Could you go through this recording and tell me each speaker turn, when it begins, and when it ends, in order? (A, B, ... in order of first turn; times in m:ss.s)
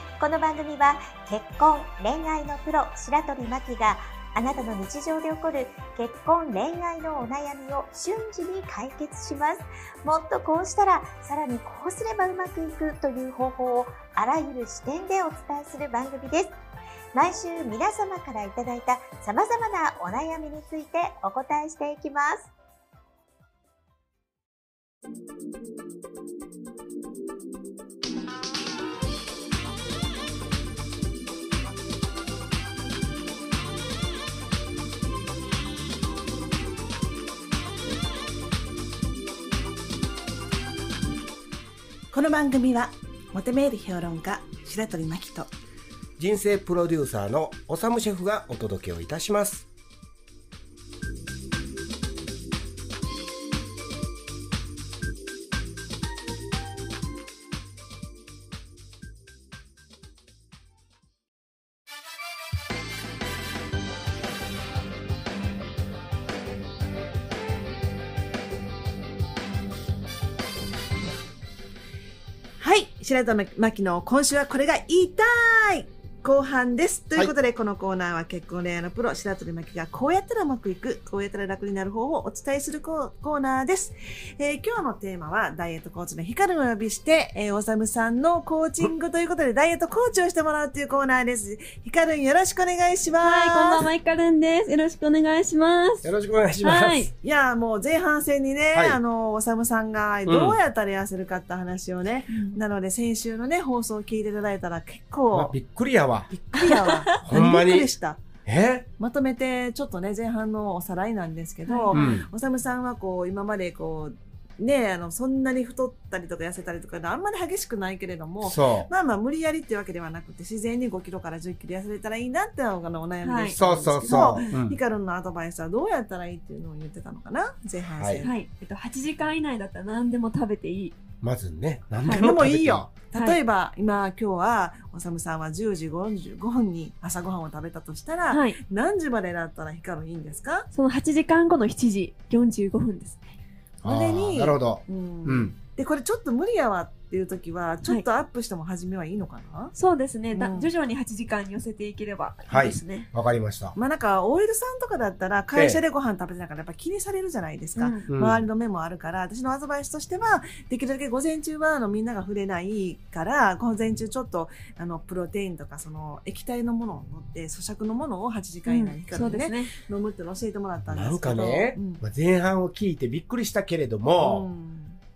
0:00.2-0:16.6 A
0:17.1-0:22.5 A
0:42.1-0:45.5 B
0:46.2-0:49.7 C
1:12.6-1:33.9 B
1:33.2-1:36.1 D
1:36.0-1:37.1 C
1:36.6-1:37.1 D
1:37.2-1:45.6 B
1:38.7-1:39.0 C
1:40.2-1:40.6 C
1:42.3-1:42.6 D
1:45.3-1:46.3 C
1:46.3-1:48.2 B
1:46.6-1:47.2 D
1:47.2-1:47.9 C
1:48.4-1:48.9 C
1:49.0-2:08.3 B
1:51.6-1:52.2 D
1:51.9-1:52.3 C
1:58.4-1:58.9 C
2:03.2-2:04.5 D
2:03.6-2:04.8 C
2:08.0-2:08.2 C
2:08.2-2:10.9 D
2:11.2-2:12.9 C
2:12.0-2:12.3 D
2:12.2-2:20.7 B
2:18.3-2:18.6 D
2:20.7-2:23.3 D
2:23.8-2:25.5 C
2:23.8-2:29.7 B
2:29.7-2:33.1 D
2:30.3-2:30.7 B
2:32.5-2:33.8 C
2:33.7-2:52.0 B
2:35.5-2:35.8 C
2:37.8-2:38.1 D
2:38.1-2:38.4 C
2:48.6-2:49.7 D
2:50.9-2:54.4 C
2:54.2-2:55.0 B